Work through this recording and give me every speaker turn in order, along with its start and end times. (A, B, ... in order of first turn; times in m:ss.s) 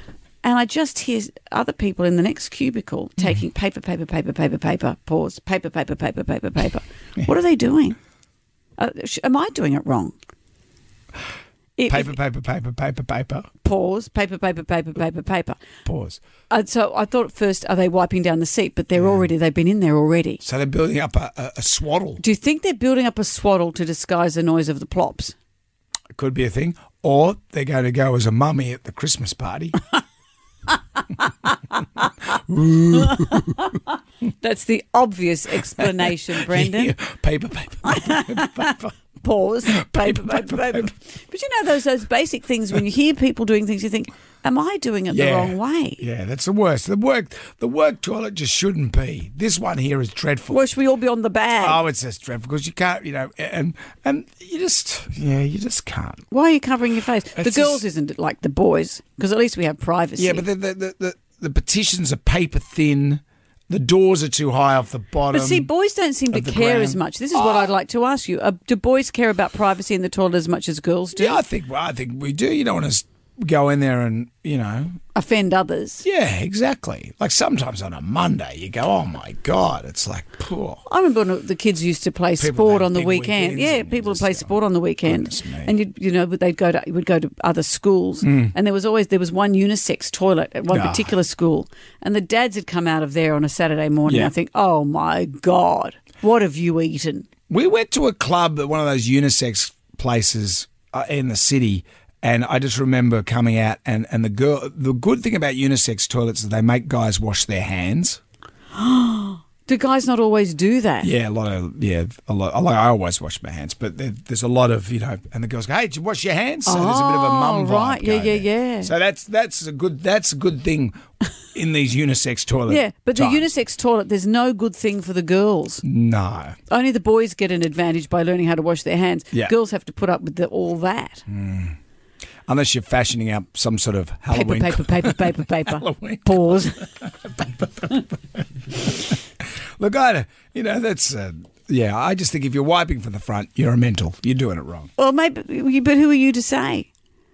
0:00.4-0:08.0 A
0:08.8-0:10.2 A
0:11.8-0:12.1 A
0:11.9-0:13.5 B
0:13.6-0:15.6 A
0:15.8-0:16.2 B
0:16.5-0:20.4 A
0:18.9-0:19.2 B
0:20.4-0:22.2 B
0:22.2-0:25.4 A
0:26.1-0:29.8 B
0:30.7-0:32.3 A
0:32.3-0:33.6 B
0:32.9-0:36.9 A
0:35.8-0:38.9 B
0:37.8-0:46.0 A
0:39.6-0:40.9 B
0:45.1-0:50.6 B
0:50.5-0:51.8 A
0:51.6-0:56.2 B
0:56.3-1:00.4 A
0:57.3-0:57.8 B
1:00.2-1:05.7 B
1:05.3-1:11.4 A
1:06.3-1:07.7 B
1:11.1-1:14.9 B
1:15.1-1:16.0 A
1:16.0-1:20.8 B
1:20.8-1:37.3 A
1:22.4-1:25.7 B
1:28.2-1:28.5 B
1:30.7-1:31.1 B
1:34.0-1:34.3 B
1:37.5-1:48.2 B
1:48.7-1:51.1 A
1:51.0-2:01.0 B
1:56.6-1:58.9 A
2:01.5-2:03.5 B
2:02.7-2:05.8 A
2:05.8-2:06.6 B
2:06.7-2:11.2 A
2:11.3-2:11.7 B
2:12.5-2:19.1 B
2:14.3-2:16.9 A
2:19.8-2:24.9 B
2:25.0-2:26.9 A